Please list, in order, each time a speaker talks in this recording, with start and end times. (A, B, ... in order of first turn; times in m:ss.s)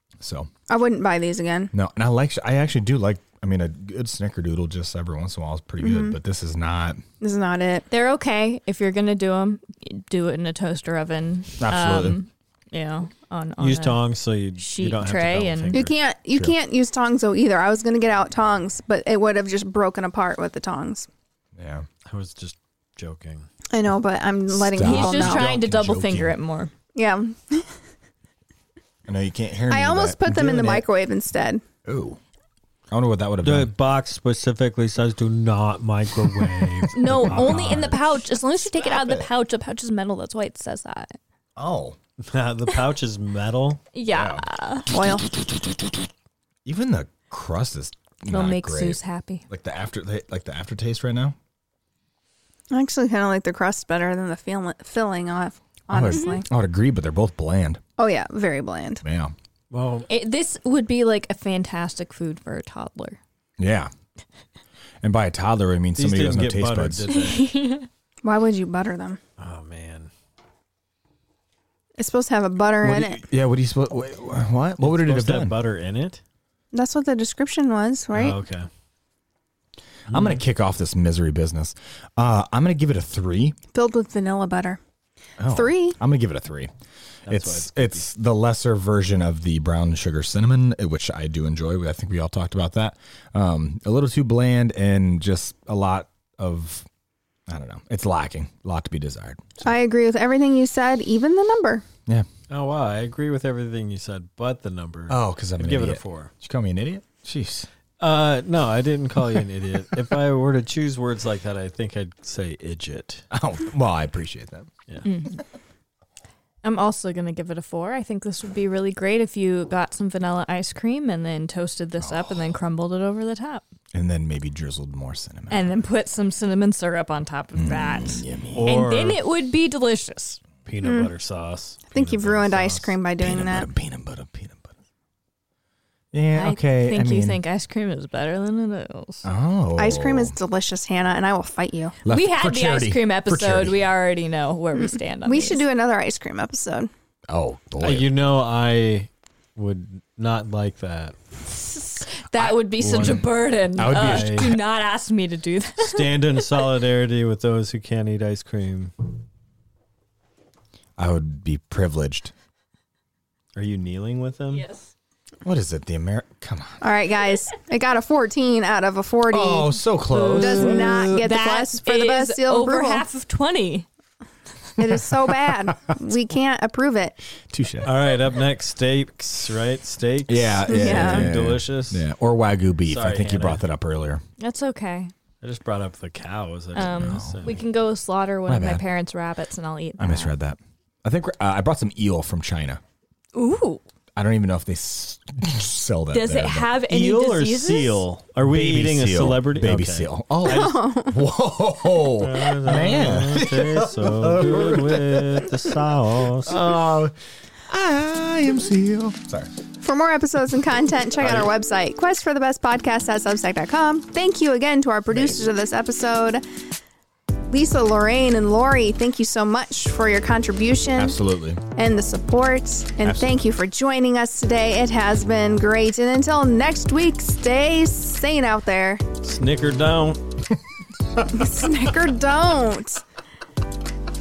0:00.2-0:00.5 A
0:00.7-0:01.7 B
0:01.7-0:07.0 A
0:05.8-0:06.2 B
0:07.2-0:07.9 B
0:07.9-0:14.0 C
0:11.6-0:12.2 A
0:13.6-0:15.9 D
0:14.6-0:15.8 C
0:15.7-0:21.1 B
0:21.6-0:21.8 A
0:22.0-0:23.5 D
0:23.7-0:25.5 B
0:24.5-0:26.4 A
0:24.8-0:26.7 C
0:26.9-0:27.7 B
0:29.1-0:30.8 A
0:29.7-0:31.6 B
0:31.8-0:32.2 A
0:32.9-0:33.7 A
0:33.4-0:38.0 D
0:36.9-0:41.1 C
0:37.0-0:38.0 A
0:38.6-0:39.3 A
0:41.6-0:42.0 A
0:42.2-0:43.8 D
0:43.9-0:44.9 C
0:44.1-0:44.4 A
0:44.9-0:45.3 B
0:46.6-0:51.4 A
0:48.3-0:49.4 C
0:52.7-0:56.4 B
0:55.9-0:57.8 A
0:56.1-0:56.4 C
0:58.0-0:59.0 B
0:59.0-0:59.3 A
0:59.7-1:00.1 D
1:00.1-1:03.2 C
1:03.6-1:03.9 A
1:05.0-1:07.1 A
1:06.0-1:07.5 D
1:07.1-1:07.9 C
1:08.2-1:09.2 B
1:09.4-1:10.1 D
1:12.0-1:13.2 B
1:12.8-1:15.6 A
1:14.8-1:16.2 D
1:16.7-1:18.4 B
1:18.1-1:18.7 D
1:20.1-1:20.4 D
1:20.1-1:23.6 A
1:23.7-1:24.8 B
1:25.4-1:26.7 A
1:25.5-1:26.0 B
1:27.3-1:28.0 D
1:27.3-1:36.9 A
1:37.5-1:39.6 A
1:39.6-1:41.8 B
1:42.5-1:46.3 D
1:45.1-1:47.7 A
1:48.0-1:53.2 D
1:53.3-1:54.7 A
1:55.0-1:55.4 C
1:56.6-2:03.6 C
2:02.0-2:02.5 A
2:03.9-2:05.8 A
2:05.5-2:10.4 C
2:07.6-2:08.8 A
2:08.5-2:09.2 D
2:10.6-2:13.0 D
2:10.8-2:11.1 B
2:11.9-2:13.7 B
2:13.2-2:14.7 A
2:16.1-2:17.4 A
2:16.3-2:19.3 C
2:19.2-2:20.4 A
2:19.8-2:22.0 B
2:22.0-2:23.8 A
2:22.0-2:25.6 C
2:24.8-2:26.9 B
2:27.3-2:28.1 A
2:27.8-2:31.1 D
2:31.6-2:36.2 C
2:32.3-2:33.2 A
2:32.8-2:34.6 D
2:33.7-2:34.6 A
2:35.8-2:39.1 D
2:41.0-2:42.3 A
2:43.5-2:44.7 D
2:44.5-2:44.9 C
2:45.4-2:46.8 A
2:46.8-2:49.8 B
2:49.3-2:51.1 A
2:50.1-2:53.8 C
2:50.4-2:53.0 B
2:50.7-2:51.2 D
2:54.8-2:57.2 B
2:54.8-2:55.7 A
2:57.5-2:57.9 A
2:57.8-3:02.0 D
3:00.3-3:04.2 A
3:00.7-3:01.3 B
3:02.8-3:03.6 D
3:04.4-3:05.1 C
3:05.4-3:07.6 D
3:06.8-3:10.4 C
3:06.8-3:07.6 A
3:08.5-3:08.8 A
3:10.0-3:12.8 A
3:13.3-3:13.8 C
3:14.2-3:16.8 A
3:16.1-3:18.0 C
3:16.8-3:20.8 D
3:18.4-3:25.6 A
3:20.4-3:21.2 B
3:22.1-3:26.6 D
3:26.4-3:27.1 A
3:27.7-3:29.5 A
3:29.8-3:36.4 B
3:37.5-3:41.2 B
3:41.0-3:41.6 A
3:41.8-3:49.0 B
3:43.0-3:43.4 A
3:49.2-3:50.2 D
3:51.3-3:53.0 B